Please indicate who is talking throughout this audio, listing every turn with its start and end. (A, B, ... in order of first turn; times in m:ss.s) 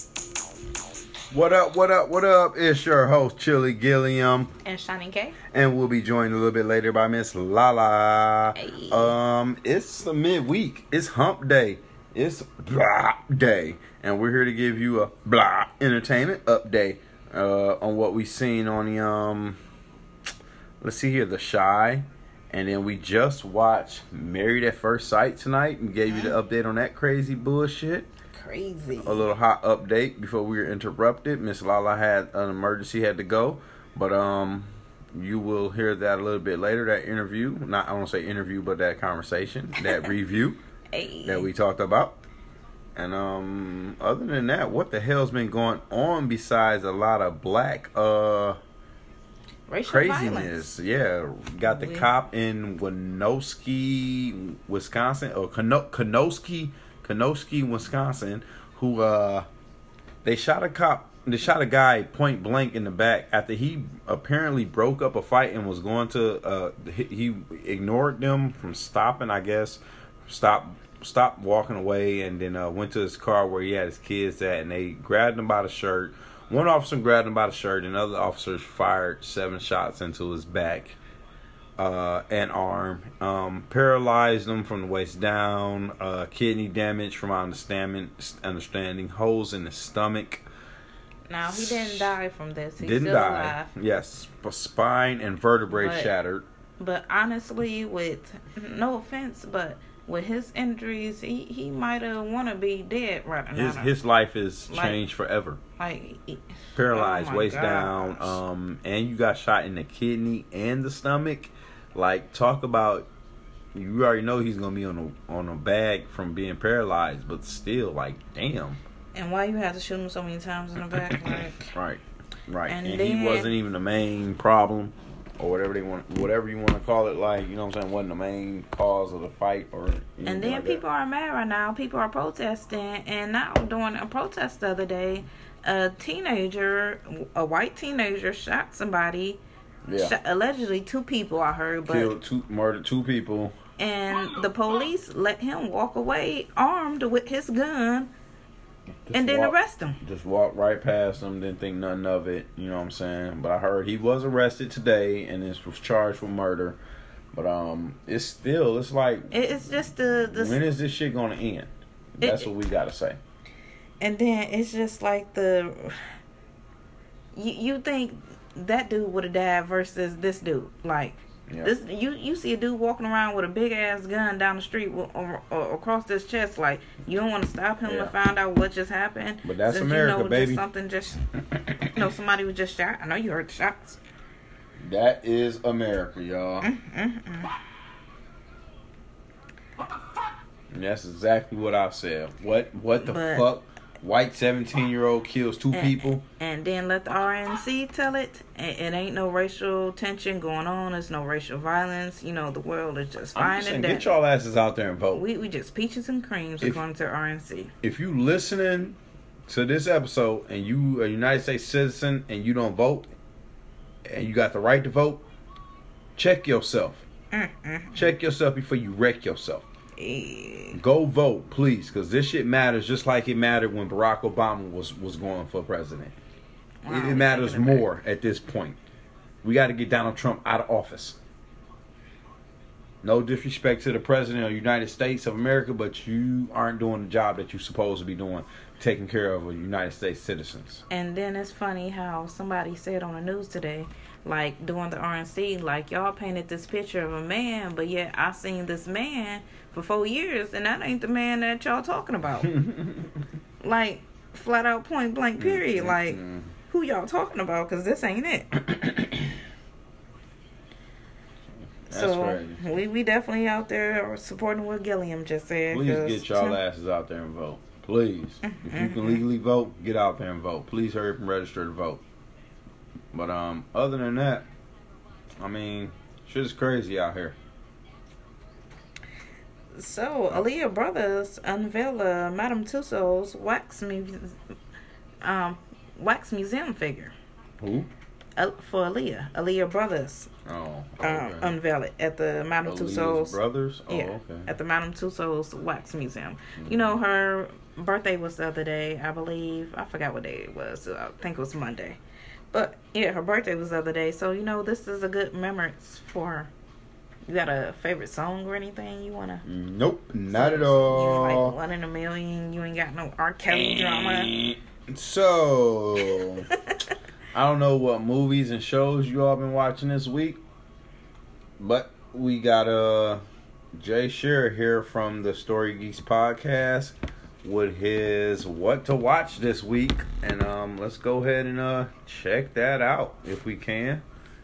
0:01.3-0:04.5 A
0:04.6-0:05.4 B
0:05.5-0:19.6 A
0:08.6-0:09.1 B
0:20.8-0:28.1 A
0:26.1-0:26.4 B
0:28.3-0:29.3 B
0:29.0-0:40.6 A
0:40.9-0:41.5 B
0:41.2-0:42.2 A
0:43.0-0:48.6 A
0:49.7-0:50.7 B
0:49.9-0:59.5 A
0:51.6-0:52.1 B
1:00.2-1:21.0 A
1:21.8-1:30.4 A
1:31.3-1:33.7 B
1:31.4-1:32.2 A
1:32.8-1:36.5 A
1:35.7-1:36.1 B
1:36.8-1:44.0 B
1:43.5-1:45.6 A
1:44.7-1:45.0 B
1:45.8-1:48.4 B
1:46.8-1:53.1 A
1:53.8-1:58.8 A
1:59.2-2:01.7 B
2:01.7-2:10.8 A
2:02.7-2:03.5 B
2:10.2-2:19.4 B
2:19.9-2:20.2 A
2:20.0-2:22.1 B
2:21.9-2:23.6 A
2:23.8-2:28.1 B
2:29.1-2:36.8 A
2:29.1-2:30.0 B
2:37.3-2:39.3 A
2:39.3-2:40.6 B
2:40.3-2:43.2 A
2:42.2-2:42.5 B
2:44.0-2:46.1 B
2:47.4-3:01.2 B
2:57.8-2:58.1 A
2:59.4-3:00.6 A
3:01.6-3:01.9 A
3:01.9-3:04.0 B
3:04.8-3:06.7 A
3:06.6-3:07.5 B
3:10.7-3:16.2 A
3:13.0-3:13.5 B
3:15.7-3:24.1 B
3:23.4-3:25.2 A
3:25.1-3:27.7 B
3:27.8-3:33.1 A
3:34.1-3:35.3 A
3:36.2-3:37.0 A
3:37.3-3:38.1 B
3:37.9-3:39.7 A
3:40.0-3:40.8 B
3:40.7-3:46.2 A
3:46.8-3:47.9 B
3:46.9-3:48.8 A
3:49.4-3:51.2 A
3:53.0-4:00.8 A
4:00.9-4:12.6 B
4:12.6-4:13.1 A
4:13.6-4:18.5 B
4:15.4-4:16.5 A
4:18.6-4:19.4 A
4:21.9-4:22.6 A
4:21.9-4:26.6 B
4:25.7-4:32.0 A
4:28.4-4:29.2 B
4:33.1-4:34.5 A
4:35.4-4:37.4 A
4:39.8-4:44.4 B
4:45.2-4:47.1 B
4:47.6-4:47.9 A
4:48.4-4:50.3 B
4:50.5-4:51.6 A
4:51.0-5:02.0 B
4:52.6-4:54.5 A
4:56.6-4:57.0 A
5:02.5-5:06.5 B
5:07.3-5:09.4 B
5:09.4-5:11.6 A
5:10.3-5:14.3 B
5:13.5-5:16.5 A
5:17.3-5:20.4 A
5:21.6-5:23.2 A
5:23.8-5:34.0 A